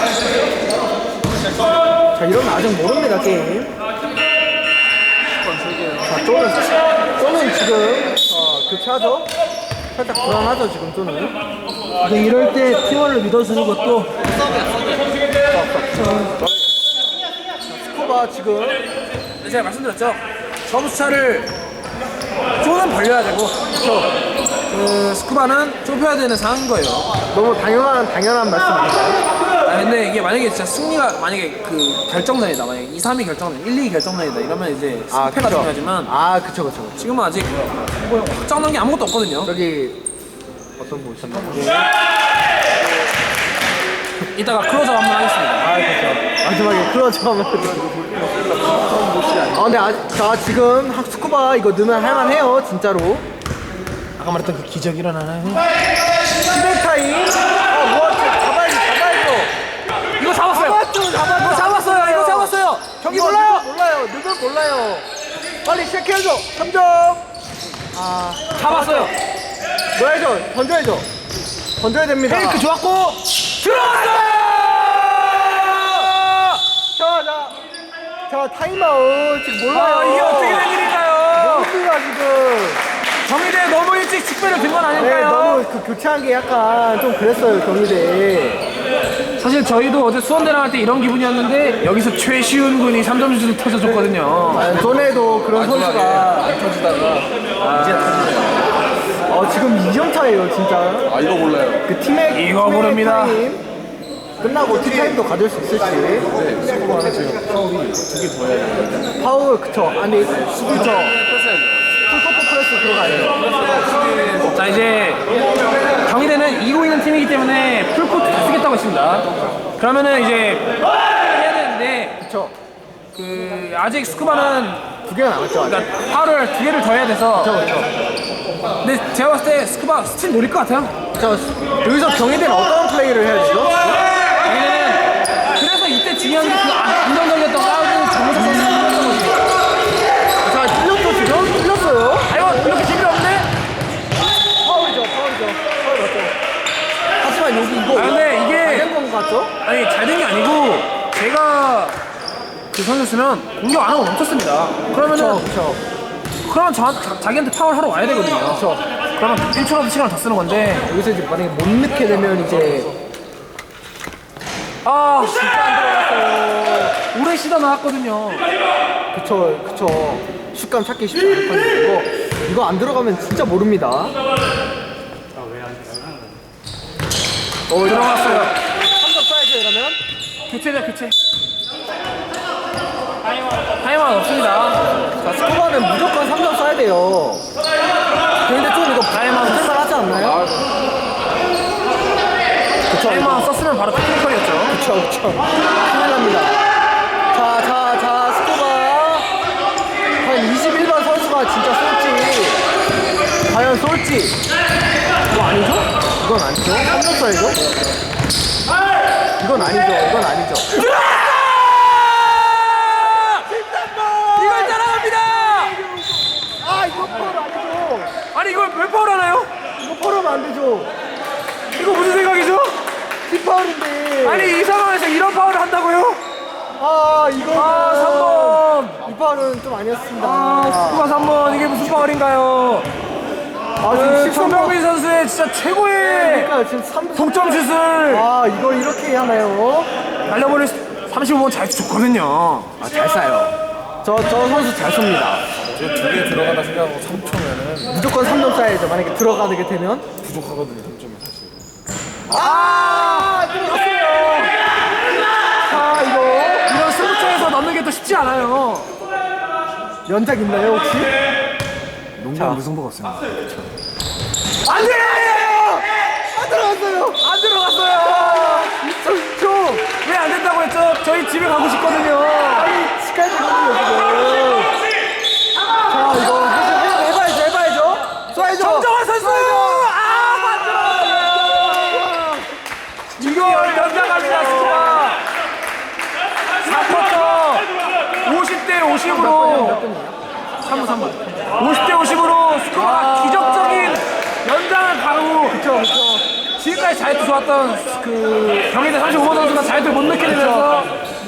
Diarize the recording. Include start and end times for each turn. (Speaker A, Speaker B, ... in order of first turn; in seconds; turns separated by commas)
Speaker A: 2.1-3.7, Speaker A: 6.0-9.3, Speaker A: 9.9-11.3, Speaker B: 12.0-14.2, Speaker A: 15.5-16.4, Speaker A: 17.7-18.8, Speaker B: 19.4-21.5, Speaker B: 22.6-23.7, Speaker A: 23.8-24.1, Speaker B: 24.7-27.1, Speaker A: 27.3-29.2, Speaker B: 29.6-36.1, Speaker A: 35.1-37.1, Speaker B: 37.0-39.5, Speaker A: 39.4-40.0, Speaker A: 40.8-41.9, Speaker B: 44.3-45.7, Speaker A: 45.6-47.9, Speaker C: 48.1-49.4, Speaker A: 49.5-53.2, Speaker B: 54.2-55.7, Speaker A: 56.5-59.5, Speaker B: 60.2-63.6, Speaker A: 60.5-62.5, Speaker A: 63.0-65.0, Speaker A: 65.6-67.2, Speaker A: 67.9-69.1, Speaker B: 68.5-69.1, Speaker A: 70.0-71.0, Speaker A: 71.8-72.7, Speaker B: 72.2-76.6, Speaker A: 76.9-77.5, Speaker A: 78.3-80.7, Speaker B: 79.7-81.7, Speaker A: 81.3-82.8, Speaker B: 83.2-85.6, Speaker A: 85.0-88.6, Speaker B: 89.4-94.9, Speaker A: 94.5-96.6, Speaker C: 96.3-97.2, Speaker B: 97.6-98.5, Speaker A: 99.3-101.2, Speaker C: 101.2-101.8, Speaker A: 101.8-103.6, Speaker B: 102.3-103.4, Speaker A: 104.4-106.3, Speaker C: 106.4-109.0, Speaker A: 109.1-111.2, Speaker A: 112.1-113.7, Speaker B: 114.3-115.2, Speaker B: 116.0-122.2, Speaker A: 122.2-122.5, Speaker B: 123.1-125.0, Speaker A: 125.0-125.9, Speaker B: 125.6-127.5, Speaker A: 127.4-127.9, Speaker B: 128.8-130.9, Speaker A: 131.2-134.0, Speaker B: 134.3-139.4, Speaker A: 140.4-142.6, Speaker B: 142.2-143.5, Speaker A: 144.6-146.3, Speaker A: 147.2-149.5, Speaker B: 147.9-148.9, Speaker B: 149.6-152.0, Speaker B: 152.7-155.5, Speaker A: 155.0-155.8, Speaker B: 156.4-160.8, Speaker A: 158.5-158.8, Speaker A: 160.8-162.9, Speaker B: 164.8-168.5, Speaker A: 165.4-166.7, Speaker A: 169.1-174.1, Speaker A: 177.7-180.0, Speaker B: 177.8-178.5, Speaker B: 180.5-181.2, Speaker B: 183.7-184.8, Speaker A: 185.2-187.4, Speaker A: 188.4-190.5, Speaker B: 189.1-189.9, Speaker A: 192.9-193.5, Speaker B: 193.0-194.8, Speaker A: 194.7-196.7, Speaker A: 197.3-199.2, Speaker A: 200.2-202.6, Speaker A: 203.5-204.4, Speaker A: 205.3-207.7, Speaker A: 209.4-210.9, Speaker B: 210.7-213.5, Speaker A: 213.3-214.8, Speaker B: 214.3-215.8, Speaker A: 215.4-218.1, Speaker B: 218.3-219.5, Speaker A: 219.8-220.9, Speaker B: 221.7-222.8, Speaker A: 223.3-224.6, Speaker B: 224.2-226.2, Speaker A: 226.8-231.2, Speaker B: 227.5-229.0, Speaker B: 230.2-232.9, Speaker A: 233.8-234.8, Speaker B: 233.8-236.5, Speaker A: 236.0-239.9, Speaker B: 237.1-238.3, Speaker B: 240.3-242.8, Speaker A: 242.8-245.4, Speaker C: 245.8-247.7, Speaker A: 247.8-250.1, Speaker C: 250.3-251.3, Speaker A: 252.3-254.5, Speaker B: 252.3-253.5, Speaker A: 255.6-256.8, Speaker B: 256.6-258.9, Speaker A: 260.1-261.1, Speaker A: 262.2-262.6, Speaker B: 262.3-263.2, Speaker B: 264.6-265.9, Speaker A: 264.7-267.2, Speaker B: 267.2-268.7, Speaker A: 267.9-269.9, Speaker B: 269.9-272.7, Speaker A: 272.4-274.8, Speaker A: 275.8-278.9, Speaker B: 278.3-282.3, Speaker A: 281.6-282.5, Speaker B: 283.2-285.2, Speaker A: 283.2-285.1, Speaker B: 286.6-289.8, Speaker A: 289.1-290.2, Speaker B: 290.6-295.6, Speaker A: 292.7-294.0, Speaker A: 295.5-296.2, Speaker B: 296.6-300.9, Speaker A: 300.2-300.8